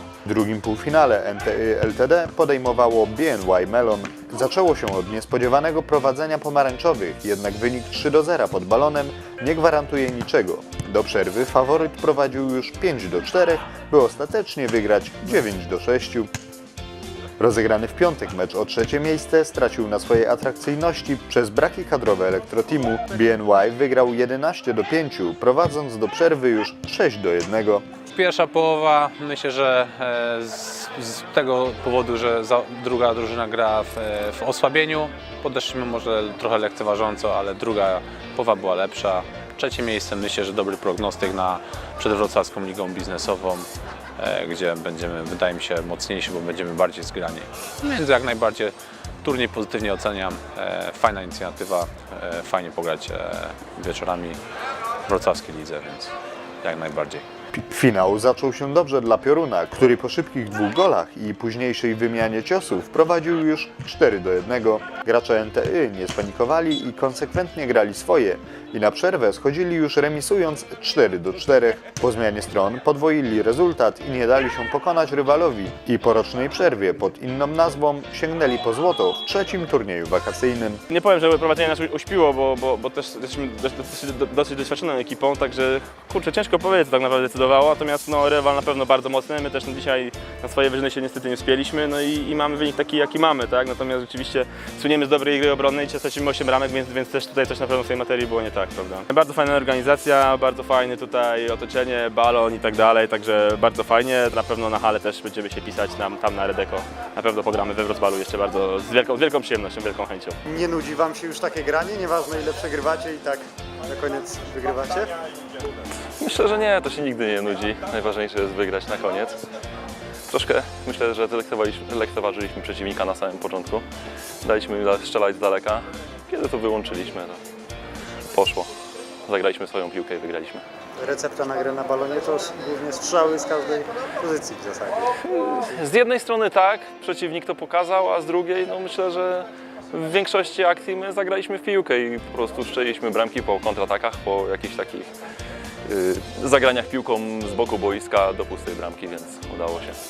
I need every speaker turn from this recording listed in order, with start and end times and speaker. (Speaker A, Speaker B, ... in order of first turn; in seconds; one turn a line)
Speaker A: 0.2-16.3
Speaker A: 17.4-27.8
Speaker B: 28.1-43.7
Speaker B: 44.2-54.4
Speaker B: 55.1-57.2
Speaker A: 57.5-80.8
Speaker C: 80.9-110.4
Speaker D: 110.5-115.1
Speaker E: 116.2-119.4
Speaker E: 120.3-123.8
Speaker E: 124.4-127.4
Speaker E: 128.3-128.7
Speaker E: 129.2-130.6
Speaker D: 131.0-135.1
Speaker E: 135.2-145.1
Speaker E: 145.8-150.0